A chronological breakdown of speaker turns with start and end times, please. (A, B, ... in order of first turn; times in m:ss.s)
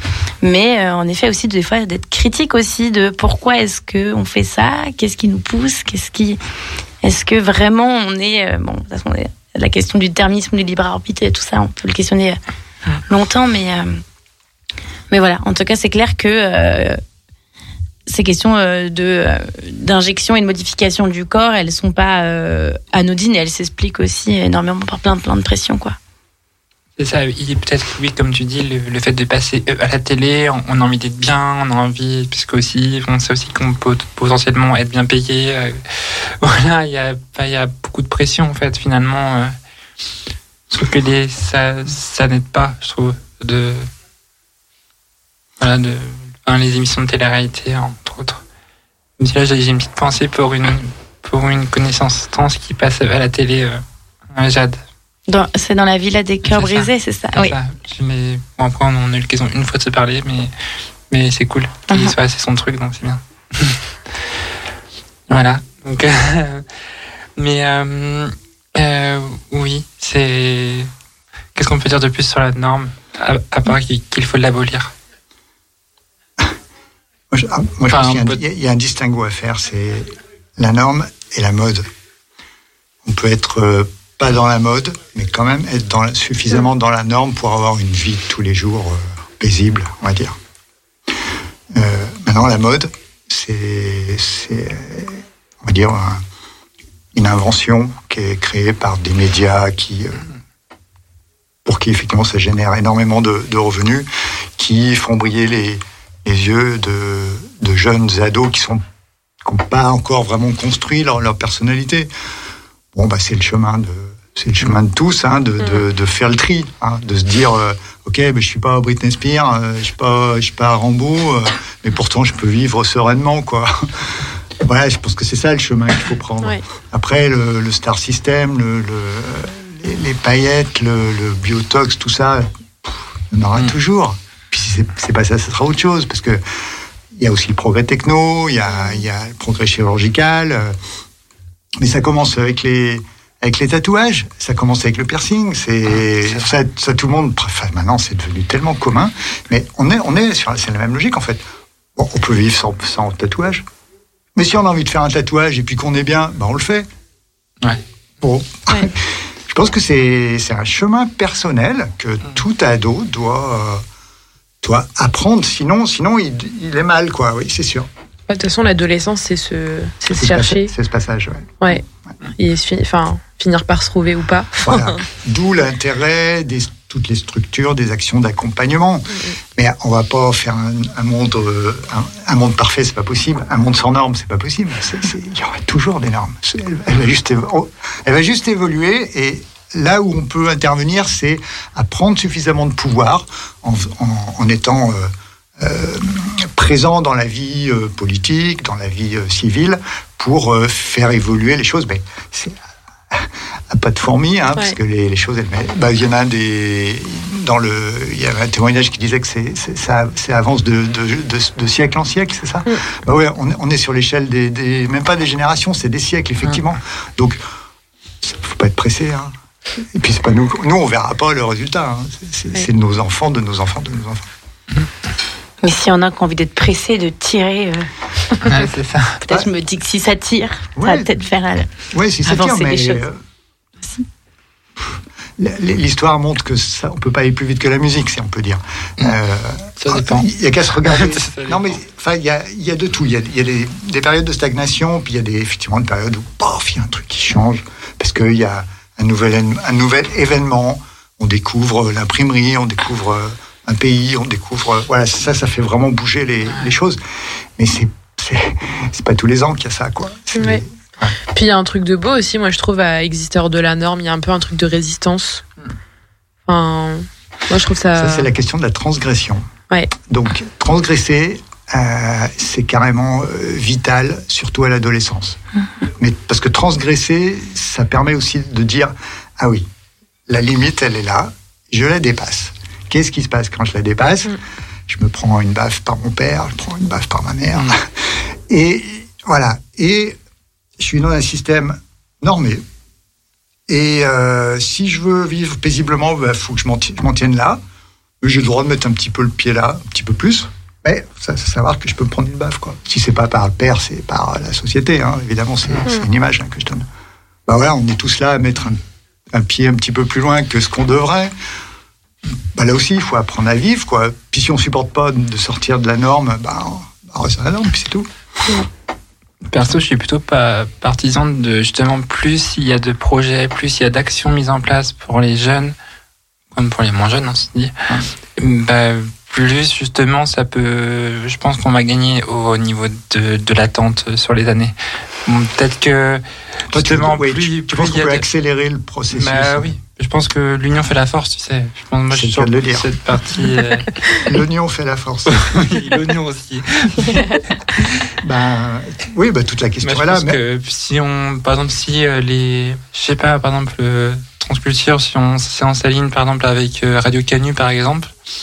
0:00.4-0:06.4 A
0:07.0-0:12.4 A
0:13.0-0:14.0 A
0:15.1-0:17.0 A
0:18.1-0:26.0 A
0:27.0-0:39.5 B
0:40.7-0:43.9 B
0:45.6-0:48.4 B
0:49.2-0:54.8 B
0:55.3-0:57.6 A
0:56.4-1:00.5 B
1:01.1-1:03.8 B
1:01.9-1:02.1 A
1:05.3-1:06.6 B
1:07.4-1:10.9 B
1:11.5-1:14.9 B
1:17.3-1:21.9 C
1:17.9-1:18.4 B
1:23.0-1:30.4 C
1:31.7-1:36.2 C
1:37.1-1:40.2 C
1:41.6-1:48.8 C
1:49.4-1:52.1 C
1:52.9-2:03.7 C
2:04.6-2:16.4 C
2:17.1-2:20.8 C
2:21.8-2:31.4 C
2:25.9-2:26.5 B
2:32.0-2:33.6 C
2:34.3-2:36.9 C
2:38.2-2:43.8 C
2:44.6-2:47.9 C
2:48.3-2:50.7 D
2:50.1-2:51.5 C
2:52.4-2:54.9 D
2:54.6-3:22.6 C
3:23.1-3:37.4 C
3:38.2-3:39.3 C
3:39.9-3:44.3 C
3:45.6-3:47.9 A
3:48.4-3:49.2 B
3:49.2-3:51.7 A
3:50.8-3:51.1 C
3:51.9-3:53.2 C
3:52.2-3:53.0 A
3:54.8-4:17.0 C
3:59.8-4:00.3 B
4:00.8-4:01.8 B
4:16.4-4:16.7 B
4:17.6-4:21.2 C
4:20.3-4:20.6 D
4:21.3-4:25.4 D
4:26.4-4:28.3 D
4:28.0-4:29.4 C
4:30.1-4:35.4 C
4:36.0-4:39.7 C
4:40.3-4:44.3 C
4:44.9-4:47.9 C
4:48.5-4:50.2 C
4:50.8-4:52.6 C
4:53.7-4:57.6 C
4:58.2-5:06.8 C
5:07.5-5:08.8 C
5:09.3-5:11.3 C
5:12.5-5:18.1 C
5:19.5-5:25.7 B
5:26.5-5:27.7 B
5:28.4-5:34.7 B
5:35.2-5:38.2 B
5:36.7-5:39.7 C
5:39.1-5:43.9 B
5:42.1-5:42.9 C
5:44.2-5:45.8 C
5:45.5-5:47.2 B
5:48.2-5:50.4 C
5:49.8-5:58.1 B